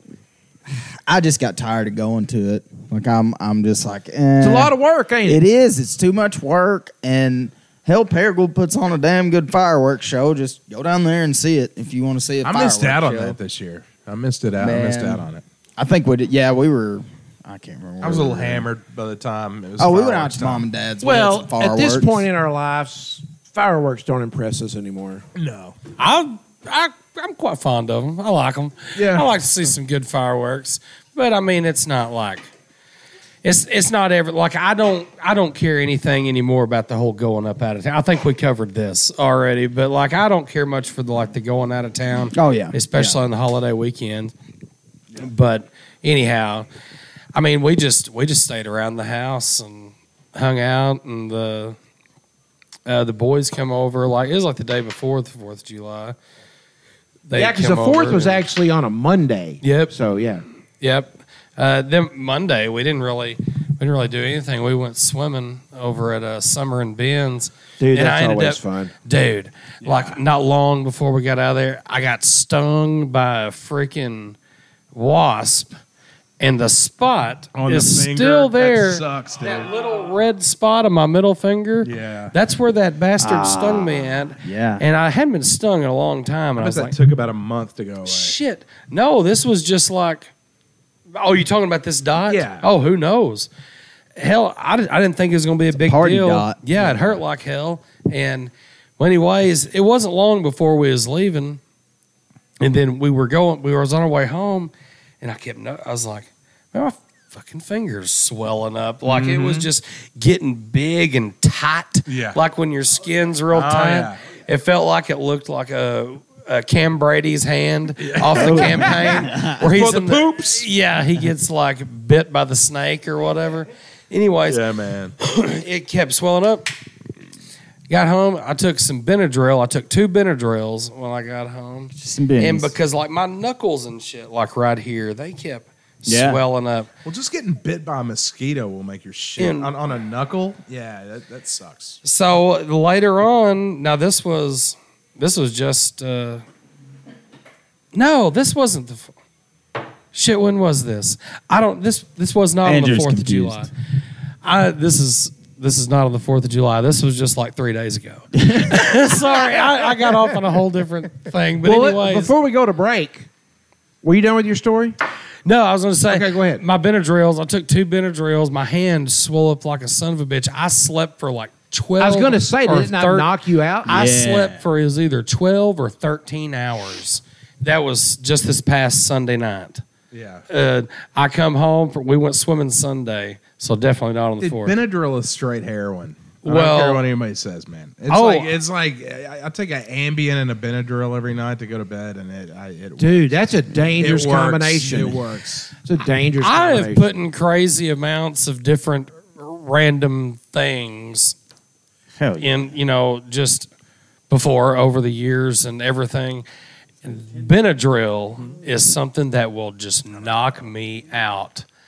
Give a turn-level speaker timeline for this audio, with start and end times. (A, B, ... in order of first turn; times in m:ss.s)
0:00.7-0:04.7 A
0:04.4-0:05.4 B
0:05.2-0:13.4 A
0:12.4-0:15.4 C
0:14.6-0:15.2 A
0:15.8-0:18.6 A
0:18.0-0:20.6 C
0:19.8-0:22.2 A
0:21.0-0:25.2 B
0:25.3-0:25.8 C
0:26.0-0:32.4 D
0:28.9-0:29.3 C
0:33.4-0:44.3 D
0:42.3-0:43.2 A
0:45.2-0:46.6 D
0:47.3-0:51.8 D
0:52.8-0:56.2 D
0:57.3-0:58.4 D
0:57.3-1:00.4 B
0:59.6-0:59.9 D
1:00.8-1:14.4 D
1:07.8-1:08.9 B
1:09.8-1:10.2 C
1:14.9-1:15.7 D
1:16.4-1:26.9 D
1:17.5-1:19.7 C
1:21.8-1:22.3 C
1:23.2-1:24.8 A
1:26.6-1:28.3 C
1:28.0-1:30.3 D
1:31.1-1:33.5 D
1:32.3-1:32.6 C
1:34.2-1:41.6 D
1:35.7-1:36.9 A
1:42.6-2:04.6 D
1:49.0-1:49.7 C
1:52.1-1:52.4 C
1:53.5-1:54.2 C
1:58.0-1:59.1 C
1:58.4-1:59.6 A
1:59.7-2:00.5 B
2:04.5-2:05.1 C
2:05.2-2:06.7 D
2:07.9-2:16.9 D
2:11.9-2:12.7 A
2:16.0-2:16.4 A
2:17.0-2:22.0 C
2:19.4-2:19.7 D
2:22.0-2:26.4 D
2:27.9-2:29.1 D
2:30.1-2:33.7 D
2:32.6-2:33.7 A
2:34.4-2:42.3 D
2:38.4-2:39.0 A
2:41.6-2:43.3 B
2:44.0-2:45.0 B
2:45.4-2:53.3 D
2:46.1-2:46.6 B
2:52.0-2:53.9 B
2:53.8-2:59.8 D
2:53.8-2:54.6 A
3:00.1-3:00.4 C
3:00.5-3:04.7 D
3:04.4-3:13.3 C
3:06.4-3:07.0 D
3:08.1-3:08.5 D
3:13.0-3:15.2 B
3:14.0-3:15.7 C
3:15.8-3:17.1 B
3:16.4-3:21.4 D
3:22.2-3:22.5 A
3:22.4-3:23.7 D
3:24.3-3:26.4 D
3:27.0-3:31.6 D